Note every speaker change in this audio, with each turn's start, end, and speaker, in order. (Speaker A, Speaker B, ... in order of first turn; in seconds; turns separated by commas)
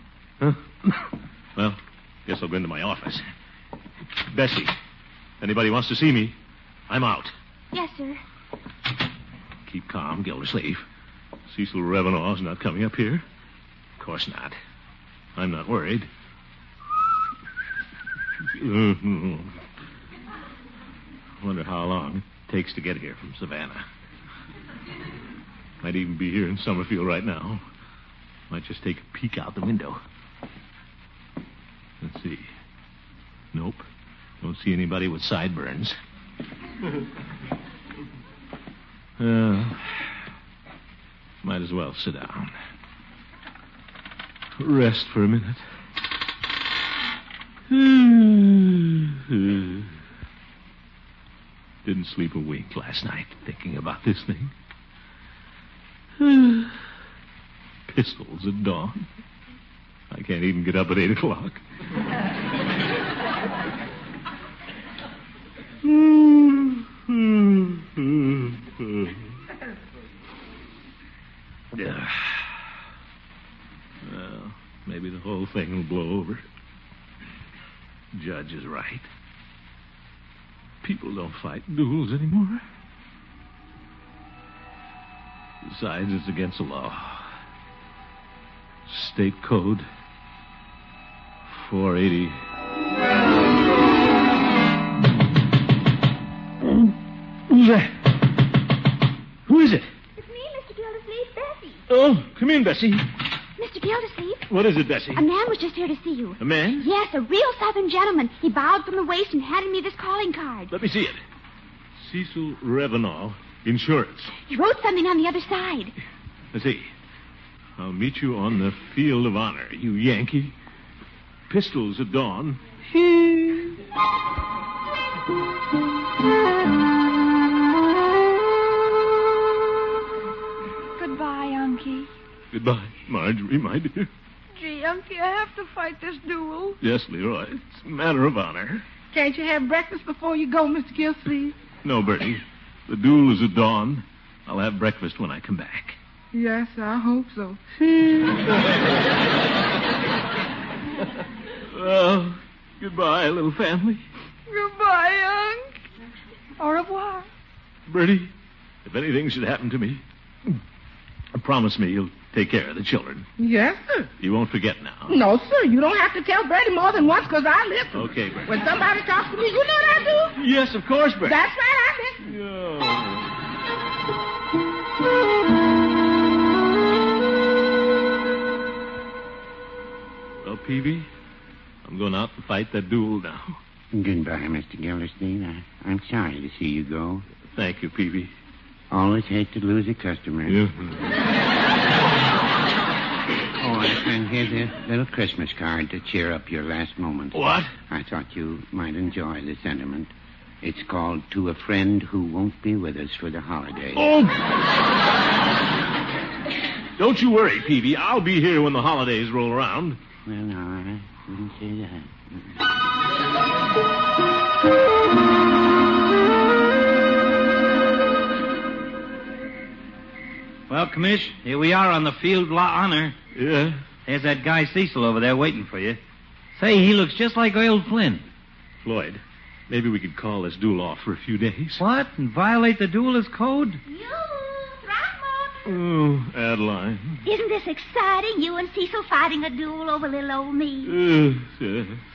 Speaker A: 0.4-1.0, Speaker A: 1.6-3.2, Speaker A: 4.3-4.7, Speaker A: 5.4-6.3, Speaker A: 6.9-7.3, Speaker B: 7.7-8.2, Speaker A: 9.7-10.8, Speaker A: 11.5-13.2, Speaker A: 14.0-14.6, Speaker A: 15.3-16.1, Speaker A: 18.6-19.6, Speaker A: 21.4-23.8, Speaker A: 25.8-27.6, Speaker A: 28.5-30.0, Speaker A: 32.0-32.5, Speaker A: 33.5-33.8, Speaker A: 34.4-36.0, Speaker A: 39.2-39.8, Speaker A: 41.4-42.5, Speaker A: 44.6-45.6, Speaker A: 47.7-49.9, Speaker A: 51.8-54.5, Speaker A: 56.2-56.7, Speaker A: 57.9-59.0, Speaker A: 60.1-61.6, Speaker A: 65.8-69.2, Speaker A: 71.7-72.5, Speaker A: 74.0-76.4, Speaker A: 78.1-79.1, Speaker A: 80.8-82.6, Speaker A: 85.6-87.3, Speaker A: 88.9-89.8, Speaker A: 91.5-92.4, Speaker A: 96.6-96.9, Speaker A: 97.5-97.9, Speaker A: 99.5-99.9, Speaker B: 100.2-101.8, Speaker A: 101.9-103.0, Speaker B: 103.6-104.5, Speaker A: 104.5-105.2, Speaker B: 105.1-110.7, Speaker A: 106.4-106.9, Speaker A: 110.7-111.2, Speaker A: 112.0-114.3, Speaker B: 114.5-115.9, Speaker A: 116.5-116.9, Speaker A: 117.8-120.5, Speaker A: 121.5-123.7, Speaker C: 131.0-132.1, Speaker A: 132.5-134.1, Speaker C: 134.5-136.8, Speaker A: 136.8-138.8, Speaker D: 139.1-141.6, Speaker A: 141.8-146.0, Speaker D: 146.3-147.6, Speaker A: 148.2-148.4, Speaker A: 151.7-154.0, Speaker C: 154.5-155.7, Speaker C: 156.6-157.2, Speaker A: 157.9-158.3, Speaker A: 158.8-160.0, Speaker A: 161.3-163.3, Speaker D: 163.4-164.1, Speaker A: 164.2-165.1, Speaker D: 165.1-170.4, Speaker A: 167.9-168.6, Speaker A: 170.3-171.4, Speaker D: 171.2-172.2, Speaker A: 172.2-173.3, Speaker A: 180.4-181.1, Speaker A: 181.8-183.6, Speaker E: 183.9-187.2, Speaker A: 187.5-188.3, Speaker E: 188.9-190.6, Speaker A: 190.5-190.9, Speaker E: 193.6-197.4, Speaker A: 197.3-197.7, Speaker E: 197.9-200.1, Speaker E: 200.6-204.0, Speaker A: 203.9-204.4, Speaker A: 207.0-210.0, Speaker E: 210.2-212.5, Speaker F: 220.7-223.1, Speaker A: 223.3-223.8, Speaker F: 224.1-226.0, Speaker F: 226.5-228.2, Speaker A: 228.8-231.8, Speaker F: 231.8-233.8, Speaker G: 233.9-235.7, Speaker A: 235.6-237.2, Speaker G: 237.2-241.0, Speaker A: 240.8-242.0